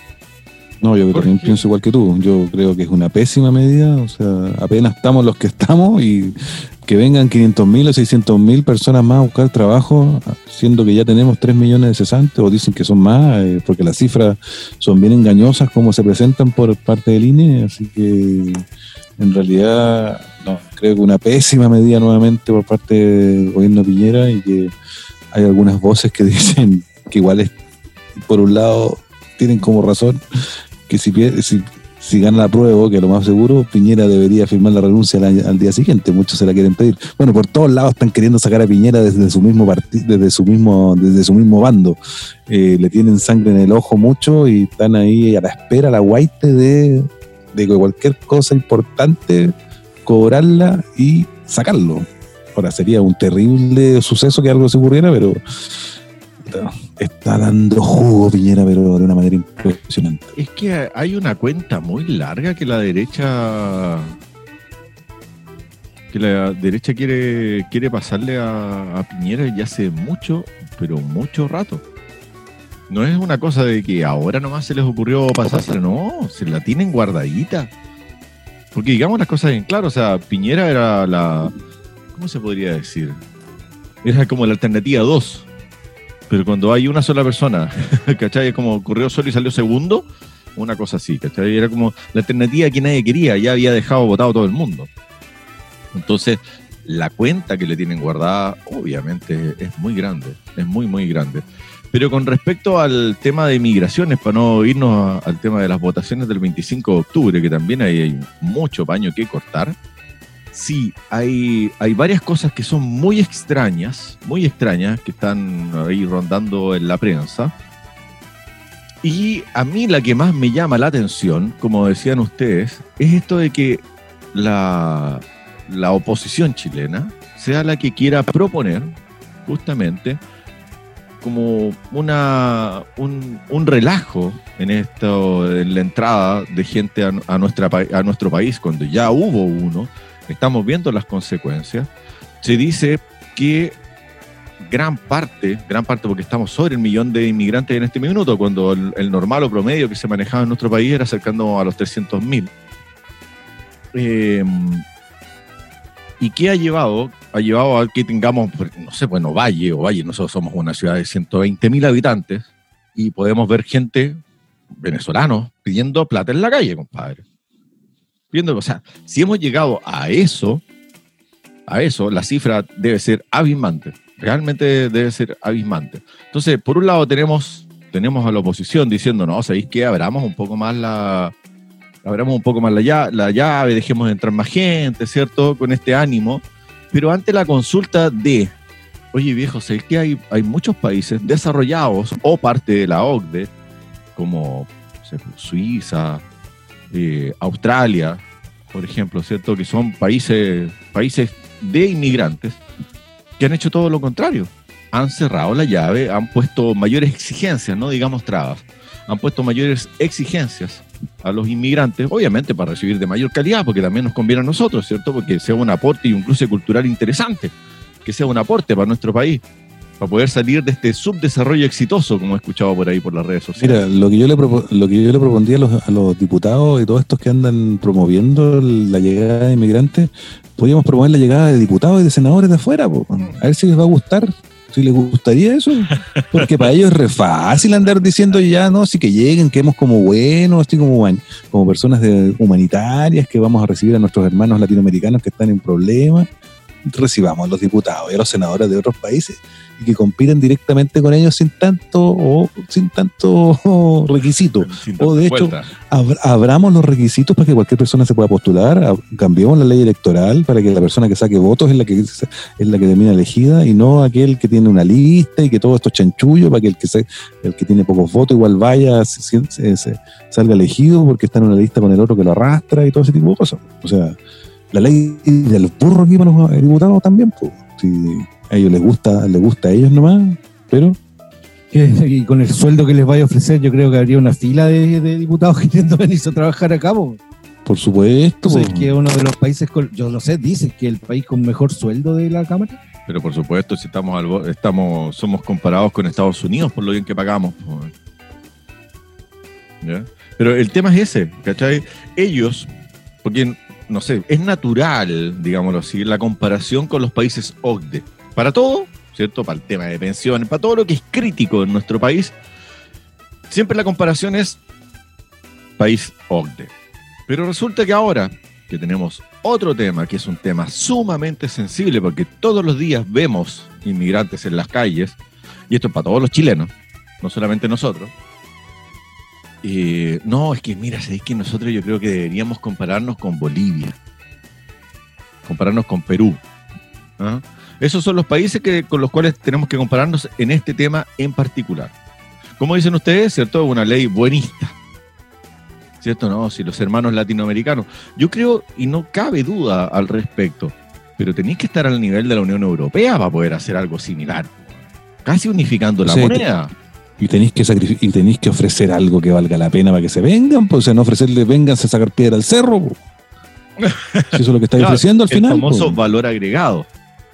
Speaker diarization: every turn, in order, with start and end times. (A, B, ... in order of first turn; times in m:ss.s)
0:00.8-0:18.6 A
0:01.1-0:01.6 B
0:19.2-0:24.7 A
0:25.3-0:27.5 A
0:28.2-0:42.0 A
0:42.5-0:49.5 A
0:50.0-0:55.8 A
0:56.4-1:00.3 A
1:00.4-1:04.2 B
1:06.1-1:11.8 B
1:12.9-1:17.7 B
1:18.7-1:21.5 B
1:22.1-1:23.2 B
1:24.0-1:25.4 B
1:26.3-1:34.9 B
1:35.9-1:49.8 B
1:50.5-1:57.5 B
1:59.0-2:10.2 B
2:11.2-2:21.9 B
2:22.4-2:23.8 B
2:24.6-2:32.5 B
2:33.9-2:34.8 B
2:36.2-2:44.2 B
2:44.8-2:47.2 B
2:48.3-2:50.6 B
2:51.7-3:01.3 B
3:02.0-3:08.5 B
3:09.1-3:13.5 B
3:14.2-3:16.2 B
3:16.9-3:22.6 B
3:23.4-3:39.4 B
3:40.0-3:43.8 B
3:43.6-4:06.3 A
3:55.9-3:56.7 B
4:06.8-4:34.2 A
4:14.6-4:15.7 B
4:34.7-4:41.0 A
4:41.7-4:47.2 C
4:47.6-4:48.9 A
4:48.4-4:52.8 C
4:53.1-4:57.9 B
4:59.8-5:02.7 B
5:03.2-5:12.4 B
5:13.5-5:14.6 B
5:15.8-5:16.7 B
5:17.3-5:25.2 B
5:25.7-5:28.1 B
5:29.6-5:34.0 B
5:35.4-5:36.4 B
5:37.2-5:41.9 B
5:42.6-5:44.7 B
5:46.0-5:56.7 B
5:56.0-5:56.4 A
5:57.2-6:03.0 A
6:03.8-6:06.9 B
6:04.3-6:06.0 A